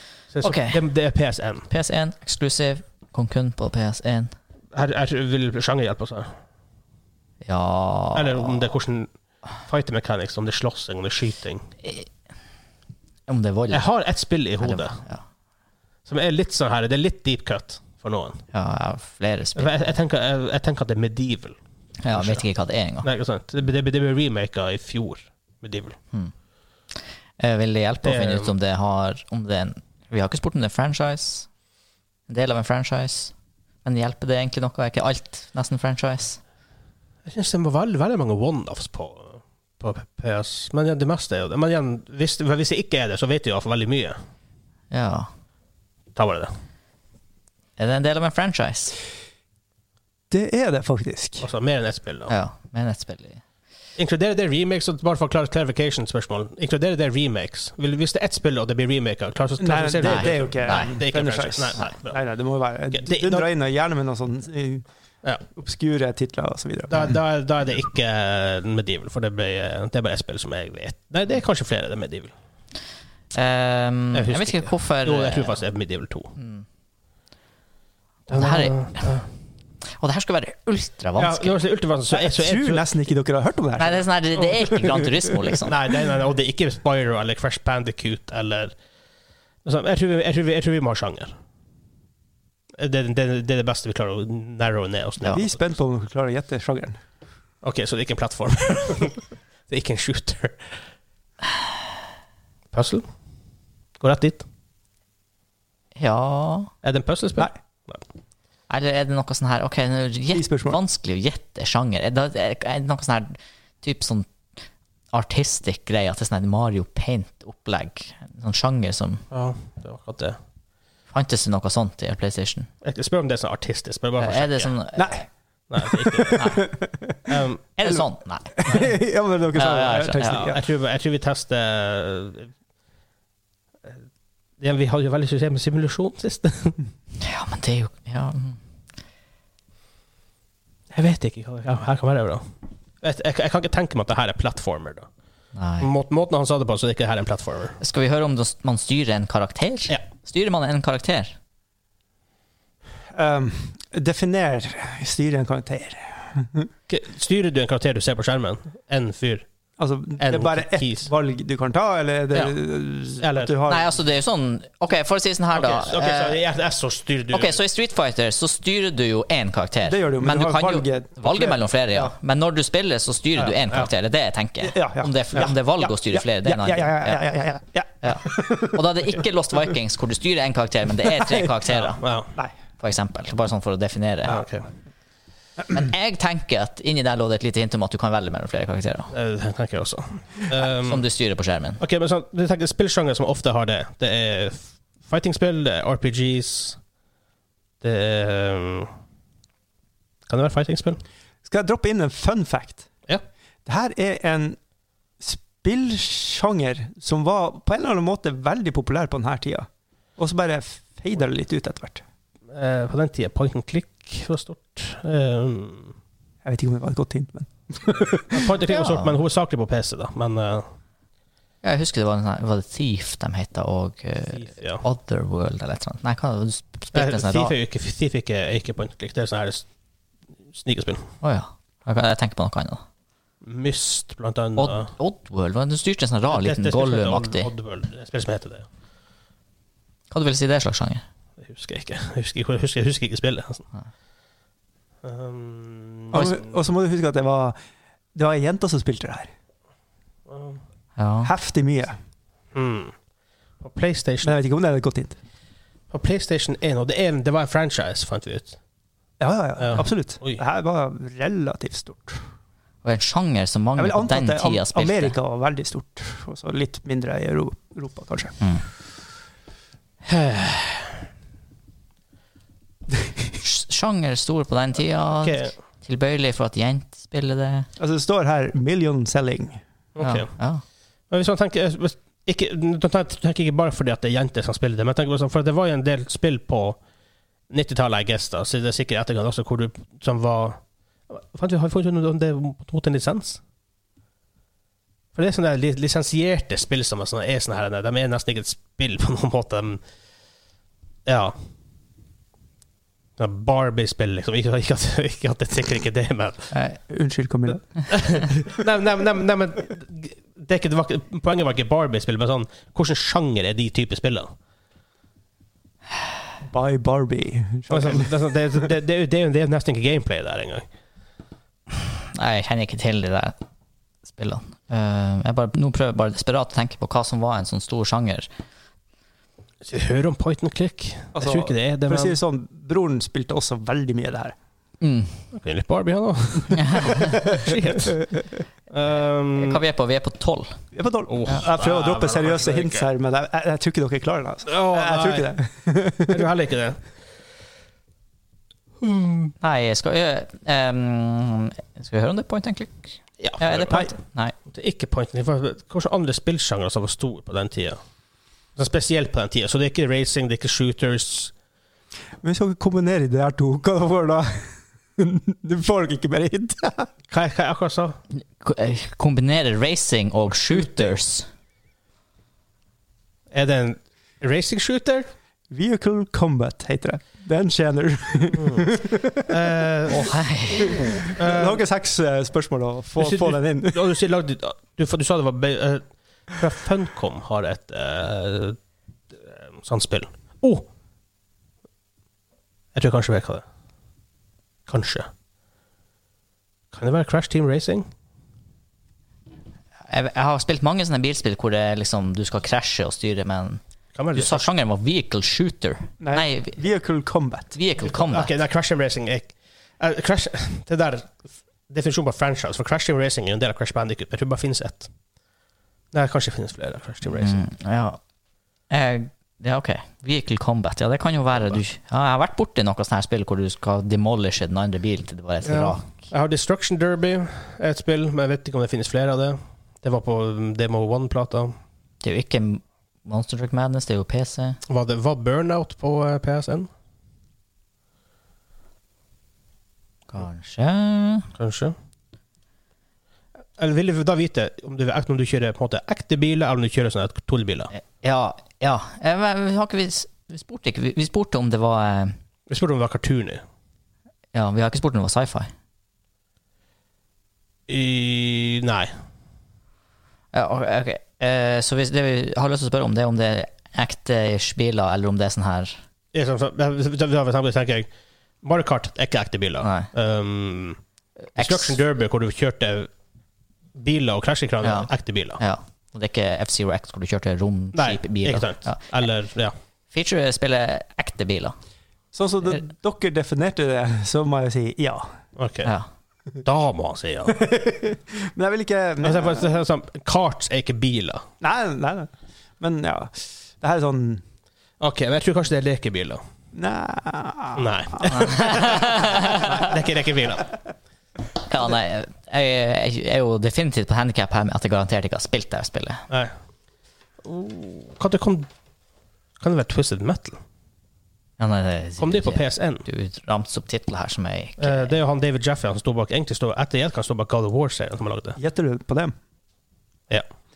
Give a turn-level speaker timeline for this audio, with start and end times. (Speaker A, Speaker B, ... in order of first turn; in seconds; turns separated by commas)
Speaker A: 0.3-1.7, Speaker B: 0.4-0.8, Speaker B: 1.7-4.3, Speaker A: 4.7-6.3, Speaker B: 7.4-8.7, Speaker A: 8.1-9.1, Speaker A: 9.7-11.7, Speaker B: 13.3-13.9, Speaker A: 13.7-15.0, Speaker B: 14.6-15.2, Speaker A: 16.1-18.4, Speaker B: 18.5-19.9, Speaker A: 19.6-21.6, Speaker B: 22.0-23.1, Speaker A: 22.1-22.4, Speaker A: 23.0-26.0, Speaker B: 26.9-31.5, Speaker A: 28.0-28.5, Speaker B: 32.3-33.3, Speaker B: 33.8-36.4, Speaker A: 37.3-44.2, Speaker B: 44.9-45.3, Speaker A: 46.1-46.5, Speaker B: 47.8-49.0, Speaker C: 50.3-51.5, Speaker A: 51.4-52.3, Speaker B: 52.3-53.4, Speaker A: 54.0-62.2, Speaker C: 59.6-64.8, Speaker B: 60.0-61.0, Speaker A: 62.9-63.5, Speaker C: 65.5-67.2, Speaker A: 66.9-72.3, Speaker B: 73.3-75.6, Speaker A: 74.1-76.3, Speaker B: 76.4-76.7, Speaker B: 78.3-79.1, Speaker A: 78.3-79.2, Speaker B: 80.0-81.6, Speaker A: 81.2-82.9, Speaker C: 82.1-84.0, Speaker B: 83.8-85.7, Speaker A: 85.7-88.8, Speaker A: 89.7-91.4, Speaker A: 92.8-95.6, Speaker C: 95.3-97.0, Speaker A: 97.6-100.7, Speaker A: 102.7-103.0, Speaker A: 104.0-104.5, Speaker B: 106.0-106.7, Speaker A: 106.8-108.0, Speaker B: 108.7-114.3, Speaker C: 110.3-110.8, Speaker B: 115.1-119.2, Speaker A: 119.3-120.4, Speaker B: 121.1-122.7, Speaker A: 122.8-124.7, Speaker B: 124.2-125.2, Speaker C: 125.0-125.3, Speaker A: 125.7-126.6, Speaker C: 125.8-127.3, Speaker B: 126.3-126.7, Speaker A: 127.3-127.7, Speaker B: 127.8-129.0, Speaker C: 128.6-130.6, Speaker B: 129.5-130.5, Speaker A: 130.2-132.5, Speaker A: 134.6-136.8, Speaker B: 137.2-138.6, Speaker A: 140.9-142.5, Speaker A: 143.0-145.1, Speaker B: 145.6-145.9, Speaker A: 145.8-147.8, Speaker B: 147.8-151.4, Speaker C: 153.1-156.7, Speaker A: 156.9-159.5, Speaker C: 159.8-163.9, Speaker A: 160.2-161.1, Speaker A: 162.3-163.5, Speaker B: 163.7-166.4, Speaker A: 165.5-167.6, Speaker B: 167.3-177.2, Speaker C: 169.8-172.1, Speaker A: 173.4-173.9, Speaker C: 174.6-178.8, Speaker B: 178.0-182.0, Speaker A: 181.7-182.3, Speaker B: 182.8-184.4, Speaker A: 184.3-184.7, Speaker B: 185.7-189.1, Speaker A: 189.1-191.1, Speaker B: 190.7-191.8, Speaker A: 191.8-196.8, Speaker A: 197.8-198.9, Speaker A: 200.3-201.0, Speaker C: 201.4-202.9, Speaker C: 203.7-204.6, Speaker C: 205.2-212.0, Speaker A: 212.5-215.9, Speaker C: 216.4-218.5, Speaker A: 218.3-220.7, Speaker B: 218.7-219.2, Speaker B: 221.6-227.5, Speaker A: 224.3-224.8, Speaker A: 226.9-229.7, Speaker A: 230.5-231.1, Speaker B: 231.2-232.8, Speaker A: 233.4-234.9, Speaker B: 234.6-237.5, Speaker A: 236.3-238.7, Speaker B: 240.1-241.0, Speaker A: 241.4-243.7, Speaker A: 245.0-246.4, Speaker C: 246.1-247.6, Speaker C: 248.2-249.3, Speaker A: 250.3-250.6, Speaker B: 251.0-251.3, Speaker C: 251.2-252.0, Speaker A: 252.6-252.9, Speaker A: 253.6-254.3, Speaker C: 254.2-255.2, Speaker A: 255.9-258.6, Speaker C: 259.2-262.2, Speaker A: 259.6-260.4, Speaker B: 262.8-265.2, Speaker C: 263.8-268.4, Speaker A: 270.1-270.9, Speaker B: 273.4-277.7, Speaker A: 275.2-275.5, Speaker C: 277.8-279.6, Speaker A: 280.0-280.3, Speaker B: 280.0-280.6, Speaker A: 281.1-286.8, Speaker A: 287.5-293.4, Speaker A: 295.1-299.8, Speaker A: 301.1-301.4, Speaker A: 303.2-306.5, Speaker B: 306.5-306.8, Speaker C: 306.9-307.7, Speaker A: 307.9-314.3, Speaker C: 316.4-318.1, Speaker A: 317.7-320.7, Speaker B: 322.1-323.4, Speaker B: 324.1-328.3, Speaker A: 329.6-332.2, Speaker C: 331.1-334.4, Speaker B: 334.8-335.2, Speaker A: 335.3-338.2, Speaker B: 336.5-337.2, Speaker C: 337.2-337.5, Speaker A: 338.7-339.6, Speaker B: 339.4-340.6, Speaker C: 340.7-346.3, Speaker A: 341.1-342.9, Speaker A: 344.5-345.3, Speaker A: 346.1-346.8, Speaker A: 348.8-349.3, Speaker B: 349.4-354.3, Speaker A: 353.2-353.8, Speaker A: 354.5-357.8, Speaker A: 358.6-361.3, Speaker C: 362.2-366.9, Speaker A: 367.1-368.0, Speaker B: 368.1-371.3, Speaker A: 370.5-370.9, Speaker A: 373.3-375.1, Speaker C: 375.5-379.3, Speaker A: 378.3-380.1, Speaker B: 379.9-381.0, Speaker C: 380.6-384.0, Speaker A: 381.1-381.6, Speaker A: 383.0-388.6, Speaker A: 389.2-390.7, Speaker A: 392.8-393.4, Speaker A: 394.7-395.1, Speaker A: 396.7-397.9, Speaker B: 399.9-403.6, Speaker A: 403.9-404.4, Speaker B: 404.1-406.6, Speaker C: 406.0-407.6, Speaker B: 407.5-408.3, Speaker A: 407.8-414.9, Speaker A: 415.9-417.4, Speaker B: 417.1-418.0, Speaker B: 418.7-426.0, Speaker A: 425.4-431.6, Speaker B: 432.0-434.6, Speaker A: 434.7-436.7, Speaker B: 440.1-441.3, Speaker A: 441.4-441.8, Speaker A: 443.6-447.7, Speaker B: 447.7-452.2, Speaker A: 452.5-453.4, Speaker B: 454.3-455.5, Speaker A: 457.7-458.9, Speaker B: 460.3-465.8, Speaker A: 466.1-467.9, Speaker A: 468.4-470.8, Speaker B: 469.6-469.9, Speaker B: 471.4-471.8, Speaker A: 471.4-472.9, Speaker A: 473.8-475.4, Speaker B: 474.6-479.1, Speaker A: 477.7-479.5, Speaker B: 479.9-481.6, Speaker C: 482.1-485.1, Speaker A: 485.4-485.7, Speaker A: 486.4-487.5, Speaker C: 487.3-489.5, Speaker A: 489.0-491.3, Speaker C: 491.4-494.2, Speaker A: 494.8-496.2, Speaker C: 496.5-498.3, Speaker A: 497.6-500.5, Speaker B: 498.1-499.7, Speaker B: 501.5-506.0, Speaker A: 507.2-508.5, Speaker A: 509.4-510.4, Speaker B: 511.4-515.0, Speaker A: 512.0-512.9, Speaker A: 514.6-518.4, Speaker C: 518.4-519.1